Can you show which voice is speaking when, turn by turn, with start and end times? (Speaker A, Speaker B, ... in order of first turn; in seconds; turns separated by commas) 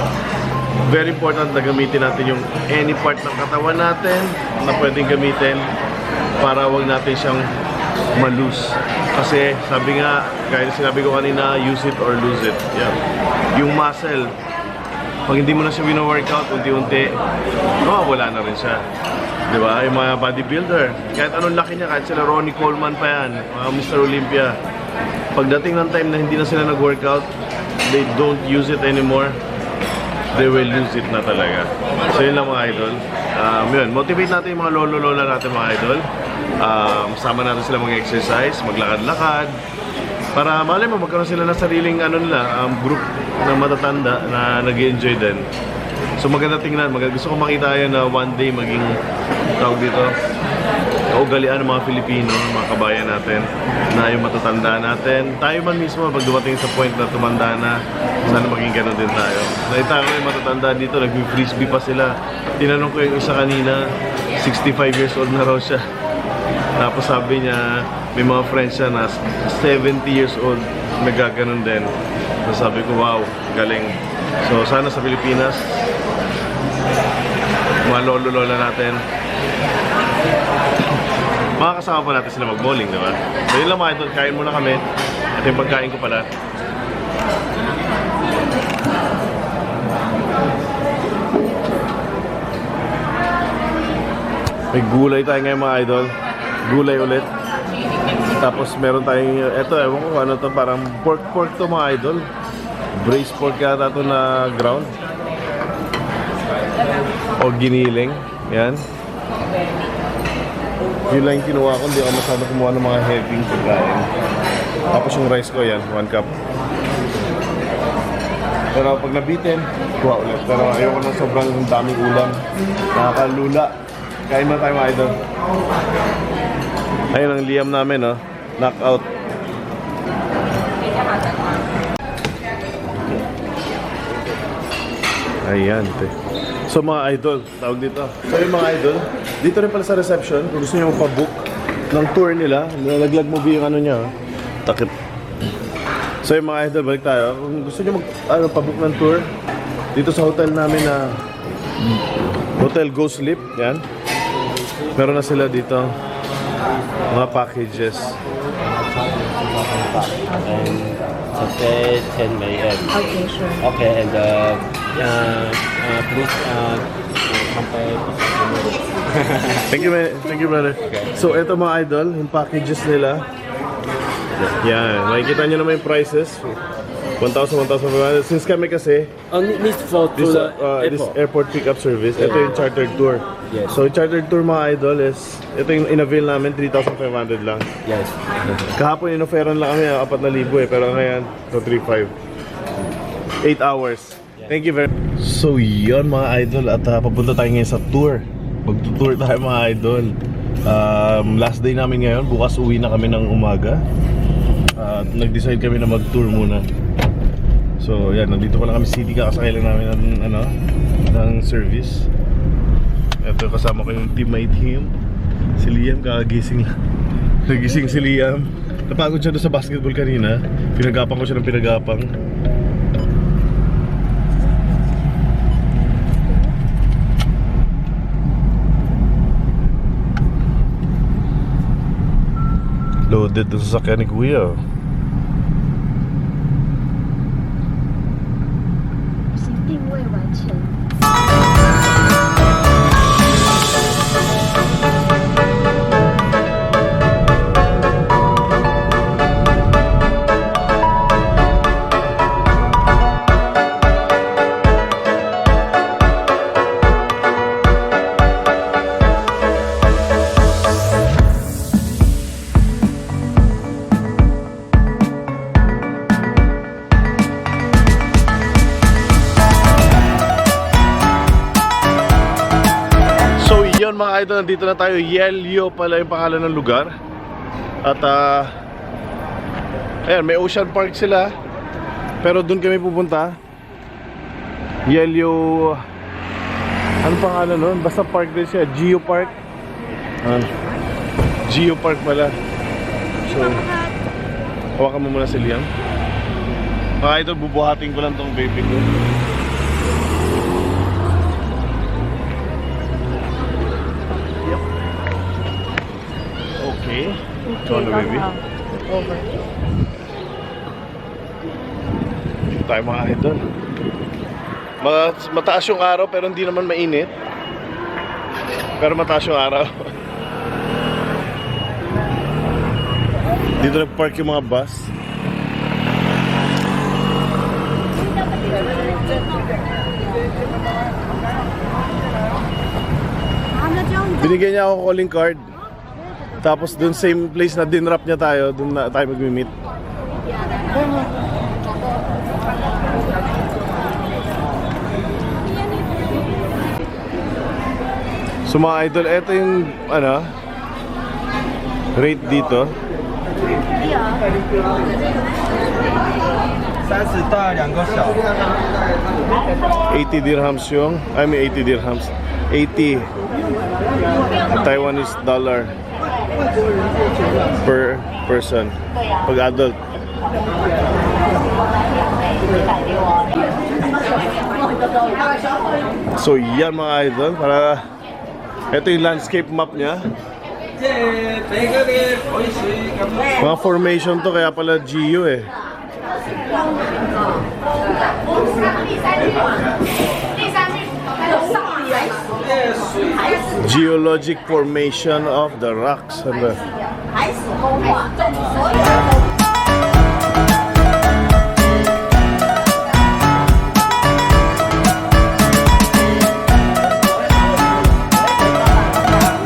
Speaker A: 0.9-5.7, Speaker A: 6.4-7.5, Speaker A: 8.2-13.0, Speaker A: 13.5-14.3, Speaker A: 15.3-17.2, Speaker A: 17.8-18.8, Speaker A: 19.5-24.6, Speaker A: 25.4-27.3, Speaker A: 27.8-29.4, Speaker A: 30.3-36.0, Speaker A: 36.6-39.6, Speaker A: 40.3-45.5, Speaker A: 46.2-48.9, Speaker A: 49.6-50.2, Speaker A: 51.1-65.8, Speaker A: 66.8-75.8, Speaker A: 77.8-79.0, Speaker A: 81.6-84.8, Speaker A: 85.3-86.3, Speaker A: 94.7-96.1, Speaker A: 96.7-97.3, Speaker A: 98.3-102.3, Speaker A: 103.0-105.0, Speaker A: 107.4-108.8, Speaker A: 111.1-114.1, Speaker A: 114.9-116.3, Speaker A: 118.7-122.4, Speaker A: 122.9-123.7, Speaker A: 124.3-125.2, Speaker A: 127.1-129.1, Speaker A: 135.4-136.1, Speaker A: 136.7-144.1, Speaker A: 144.7-144.9, Speaker A: 146.2-149.3, Speaker A: 149.9-151.2, Speaker A: 152.6-153.8, Speaker A: 154.9-156.0, Speaker A: 157.1-158.2, Speaker B: 158.9-163.0, Speaker C: 162.9-163.6, Speaker B: 163.6-169.6, Speaker A: 169.7-173.3, Speaker A: 174.6-176.5, Speaker A: 177.2-179.1, Speaker B: 179.3-181.2, Speaker A: 180.2-187.7, Speaker B: 182.2-182.7, Speaker B: 187.9-188.7, Speaker A: 188.7-192.1, Speaker A: 193.4-203.8, Speaker A: 204.8-206.7, Speaker A: 207.8-210.5, Speaker A: 211.1-212.1, Speaker A: 213.2-214.9, Speaker A: 215.6-216.7, Speaker A: 217.4-222.1, Speaker C: 225.8-226.5, Speaker A: 233.1-234.6, Speaker C: 239.3-240.8, Speaker A: 273.4-276.9, Speaker A: 277.8-278.5, Speaker A: 280.1-281.3, Speaker A: 282.2-283.4, Speaker A: 284.9-285.8, Speaker A: 287.0-289.3, Speaker A: 290.2-290.5, Speaker A: 291.5-292.3, Speaker A: 293.2-293.6, Speaker A: 294.8-295.7, Speaker A: 297.0-298.9, Speaker A: 306.6-308.4, Speaker C: 308.8-309.3, Speaker A: 312.6-313.4, Speaker A: 314.8-317.1, Speaker A: 318.8-319.9, Speaker A: 323.6-324.9, Speaker C: 328.6-329.3, Speaker C: 333.8-334.1, Speaker A: 334.1-335.5, Speaker A: 336.4-339.5, Speaker A: 348.5-350.3, Speaker A: 351.9-352.8, Speaker C: 353.9-354.2, Speaker A: 359.9-363.1, Speaker A: 364.5-365.7, Speaker A: 367.6-369.8, Speaker A: 376.2-377.8, Speaker A: 378.7-380.1, Speaker A: 383.3-385.5, Speaker C: 391.3-392.3, Speaker A: 393.6-396.6